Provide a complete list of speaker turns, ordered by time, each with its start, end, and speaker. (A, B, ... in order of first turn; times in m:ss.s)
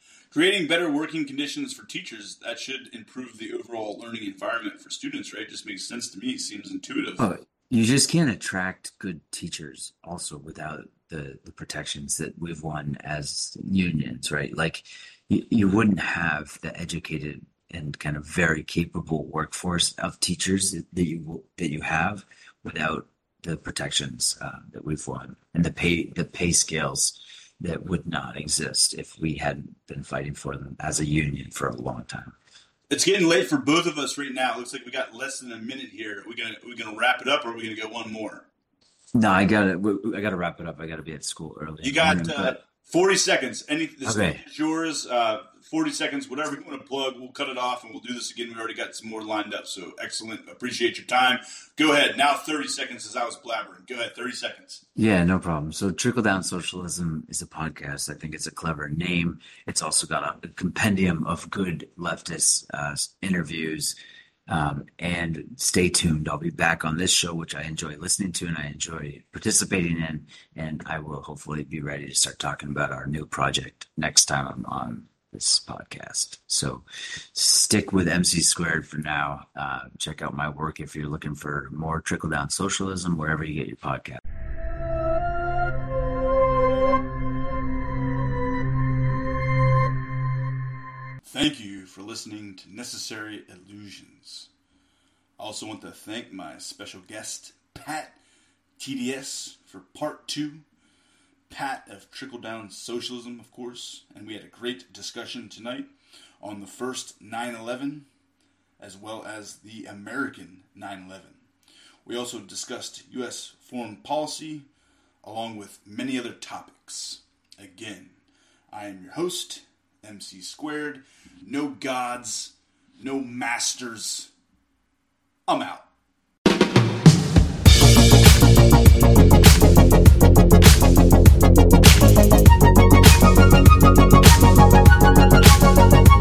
0:00.3-0:07.3 A
0:07.2-0:32.4 B
0:32.9-0:38.5 A
0:39.2-0:42.6 B
0:41.8-0:54.8 A
0:44.0-0:44.4 B
0:55.0-1:03.9 B
1:04.5-1:24.2 B
1:31.3-1:34.5 A
1:35.4-1:38.2 A
1:38.8-1:40.6 A
1:41.5-1:45.9 A
1:46.4-1:48.1 A
1:48.8-1:51.4 A
1:52.1-1:54.7 A
1:55.2-1:58.2 A
1:58.7-2:04.3 A
2:05.5-2:05.9 A